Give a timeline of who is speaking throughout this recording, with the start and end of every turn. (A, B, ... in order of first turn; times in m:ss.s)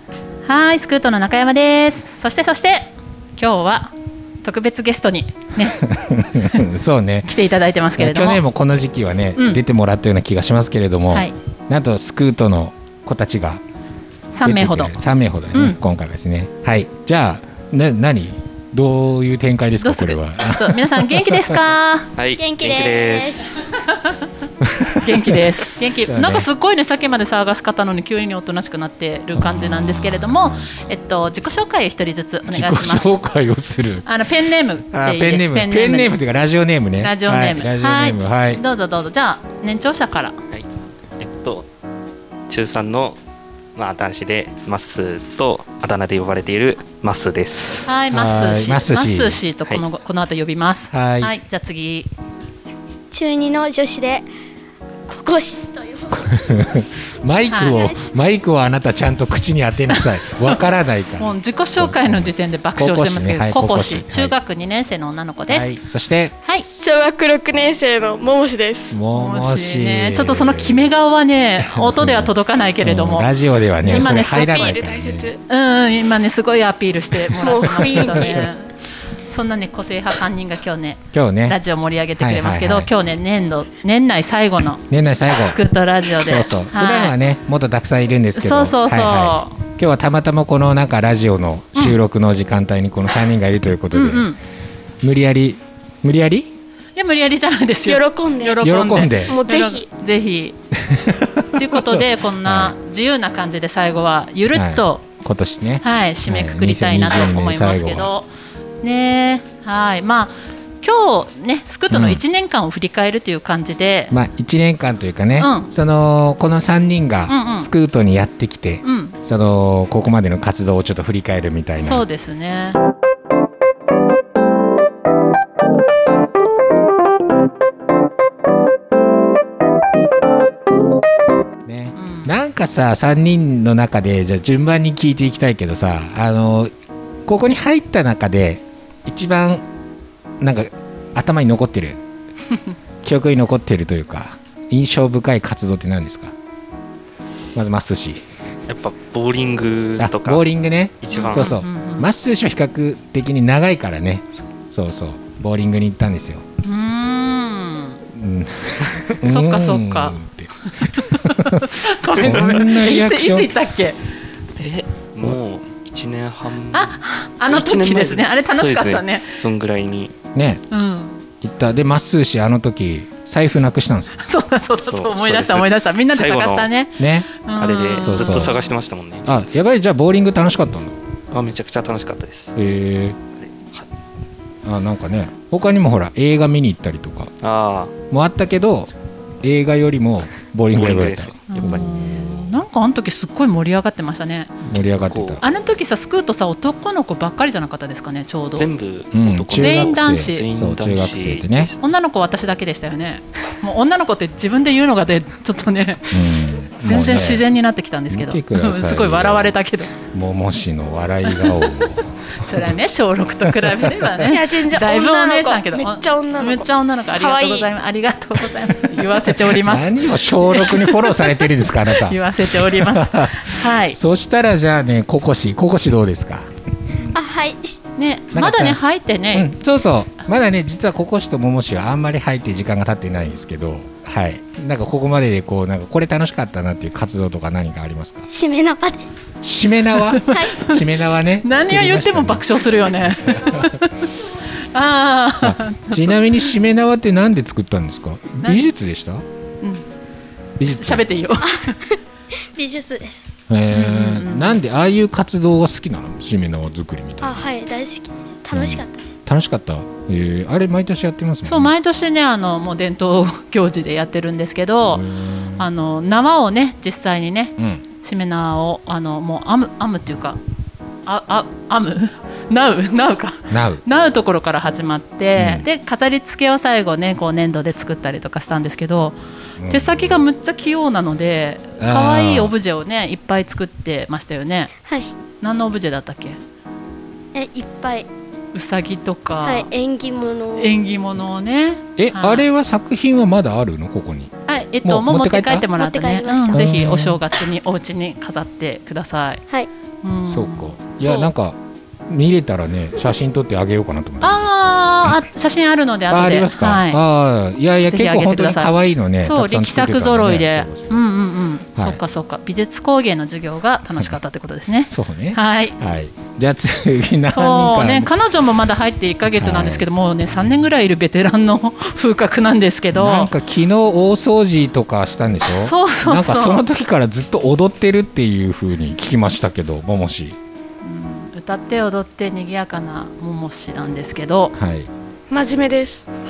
0:00.4-0:05.8 A
0:05.6-0:07.3 B
0:07.2-0:08.4 A
0:08.0-0:13.6 B
0:09.4-0:09.6 A
0:14.3-0:14.9 A
0:14.4-0:21.6 B
0:19.8-0:22.1 A
0:22.2-0:23.6 C
0:22.4-0:23.6 D
0:24.6-0:25.2 B
0:25.0-0:33.1 A
0:26.1-0:26.5 B
0:29.3-0:30.9 B
0:32.4-0:34.0 B
0:34.0-0:36.2 A
0:34.9-0:38.6 B
0:37.0-0:40.4 A
0:41.2-0:41.6 C
0:42.5-0:43.2 C
0:43.8-0:48.0 C
0:47.9-0:52.1 A
0:48.1-0:49.4 B
0:50.9-0:51.3 B
0:53.1-0:54.3 D
0:55.1-0:56.3 D
0:56.2-1:04.4 B
0:57.5-0:57.8 A
0:57.7-0:58.0 D
1:01.2-1:05.7 A
1:05.5-1:06.4 B
1:06.6-1:09.0 E
1:08.9-1:10.9 B
1:09.1-1:13.3 A
1:11.6-1:15.3 B
1:13.8-1:14.8 A
1:13.8-1:15.4 E
1:15.5-1:18.7 A
1:17.4-1:18.4 E
1:17.6-1:18.4 B
1:19.3-1:24.8 A
1:21.1-1:21.6 B
1:22.2-1:22.9 B
1:24.9-1:25.6 B
1:25.4-1:27.1 A
1:26.2-1:34.3 B
1:28.3-1:29.6 A
1:33.9-1:34.4 A
1:35.0-1:36.5 B
1:37.0-1:40.6 A
1:37.8-1:38.6 E
1:38.6-1:39.4 B
1:39.2-1:39.8 E
1:40.8-1:42.7 B
1:41.5-1:45.0 A
1:44.5-1:48.1 B
1:45.8-1:48.3 A
1:48.8-1:54.1 A
1:51.9-1:52.2 B
1:54.1-2:02.0 B
1:55.4-1:55.7 A
1:57.3-1:57.7 A
1:58.8-1:59.2 A
2:01.8-2:02.8 A
2:11.6-2:16.7 B
2:12.0-2:12.3 A
2:17.2-2:19.6 B
2:20.4-2:22.0 B
2:23.0-2:26.3 B
2:27.5-2:28.2 B
2:28.7-2:30.4 C
2:30.0-2:36.4 B
2:31.0-2:31.6 C
2:31.1-2:32.1 A
2:36.6-2:38.0 A
2:38.1-2:43.5 B
2:39.2-2:40.2 A
2:40.8-2:44.0 A
2:42.1-2:42.6 C
2:44.6-2:50.1 C
2:46.7-2:49.3 A
2:50.3-2:50.6 B
2:50.7-2:51.2 A
2:51.4-2:54.2 B
2:54.2-2:58.5 A
2:54.8-2:56.7 C
2:57.0-2:57.3 B
2:57.6-2:59.4 C
2:58.0-2:58.6 B
2:59.2-3:01.0 B
3:01.3-3:02.6 C
3:02.6-3:03.2 B
3:03.4-3:03.8 C
3:04.6-3:07.3 B
3:07.4-3:07.9 C
3:08.1-3:11.9 B
3:10.7-3:12.4 C
3:11.5-3:14.6 A
3:14.6-3:15.4 B
3:14.8-3:15.4 C
3:15.4-3:18.7 A
3:18.6-3:21.8 C
3:19.1-3:21.7 B
3:19.5-3:20.4 A
3:21.8-3:26.2 A
3:26.1-3:27.4 B
3:26.8-3:29.9 A
3:28.1-3:32.7 B
3:32.3-3:44.0 A
3:33.5-3:34.1 B
3:34.2-3:37.7 E
3:39.4-3:46.5 B
3:47.1-3:47.8 D
3:48.0-3:49.5 A
3:48.3-3:48.8 B
3:49.3-3:58.3 B
3:58.3-3:59.1 D
3:59.4-4:03.7 B
4:00.2-4:00.9 A
4:00.3-4:00.6 D
4:01.4-4:04.1 A
4:04.7-4:06.2 A
4:05.4-4:09.2 B
4:10.6-4:11.0 B
4:10.6-4:11.8 A
4:11.4-4:13.3 D
4:13.5-4:17.5 B
4:13.7-4:14.6 A
4:17.2-4:19.1 D
4:18.5-4:21.7 B
4:21.4-4:25.0 A
4:24.9-4:25.6 B
4:25.6-4:30.4 A
4:27.6-4:27.8 B
4:31.0-4:39.2 A
4:33.5-4:33.8 B
4:35.4-4:35.6 B
4:39.6-4:40.2 B
4:39.7-4:44.7 A
4:41.8-4:42.5 B
4:44.8-4:45.1 D
4:45.4-4:46.4 A
4:47.3-4:48.1 D
4:48.5-4:49.7 A
4:49.4-4:50.8 D
4:50.6-4:52.5 A
4:52.0-4:54.3 B
4:54.5-4:59.4 A
4:54.8-4:55.7 B
4:55.7-4:56.7 D
4:56.5-4:57.2 B
5:00.0-5:01.3 A
5:00.2-5:04.4 B
5:04.2-5:07.0 A
5:06.1-5:11.0 B
5:07.9-5:15.8 A
5:11.7-5:12.0 B
5:14.9-5:18.1 B
5:17.3-5:23.3 A
5:19.4-5:19.9 B
5:22.9-5:30.4 B
5:25.6-5:26.6 A
5:30.8-5:34.5 A
5:34.5-5:34.9 B
5:35.3-5:36.0 E